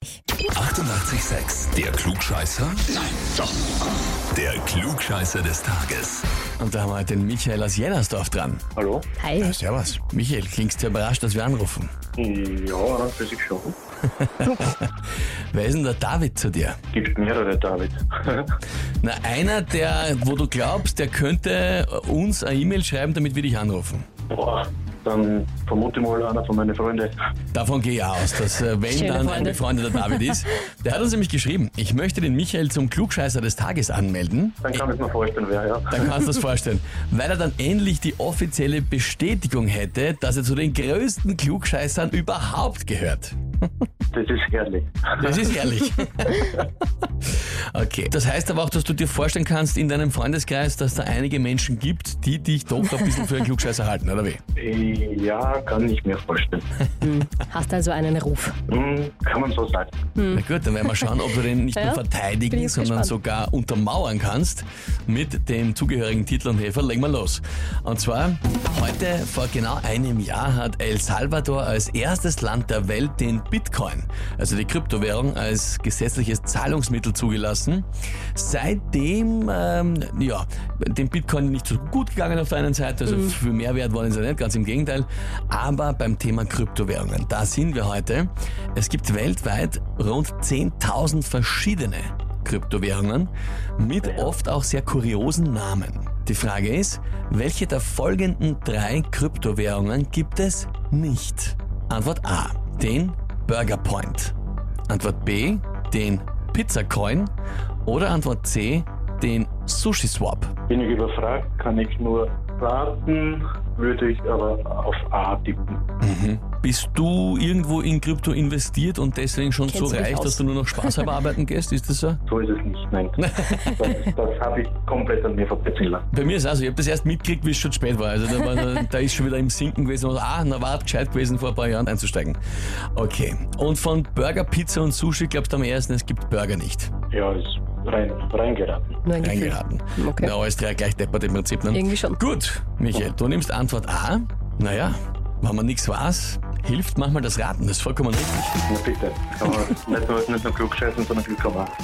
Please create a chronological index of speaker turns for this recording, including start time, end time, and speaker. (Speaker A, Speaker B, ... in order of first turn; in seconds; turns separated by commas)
Speaker A: 0.5-3.4, Speaker A: 4.3-6.2, Speaker B: 6.6-8.6, Speaker C: 8.8-9.1, Speaker D: 9.2-9.6, Speaker B: 9.4-11.9, Speaker C: 12.2-13.7, Speaker B: 14.2-14.9, Speaker B: 15.5-16.8, Speaker C: 16.9-18.5, Speaker B: 19.0-24.1, Speaker C: 24.3-27.1, Speaker B: 27.5-34.9, Speaker D: 28.9-30.3, Speaker C: 34.6-36.1, Speaker B: 35.9-43.4, Speaker C: 44.1-45.5, Speaker B: 45.2-46.6, Speaker B: 47.7-54.4, Speaker C: 54.5-56.6, Speaker D: 57.0-58.5, Speaker C: 58.7-59.9, Speaker D: 60.2-61.1, Speaker B: 60.3-104.3, Speaker D: 61.8-63.1, Speaker C: 94.0-94.3, Speaker B: 104.9-107.3, Speaker B: 107.8-110.5, Speaker C: 110.7-115.8, Speaker B: 116.0-122.2, Speaker D: 119.7-121.1, Speaker C: 122.3-126.0, Speaker B: 123.2-124.0, Speaker B: 126.1-132.4, Speaker B: 132.9-136.9, Speaker C: 137.1-139.0, Speaker D: 139.0-140.3, Speaker B: 139.2-148.6, Speaker D: 141.7-142.2, Speaker C: 148.7-151.7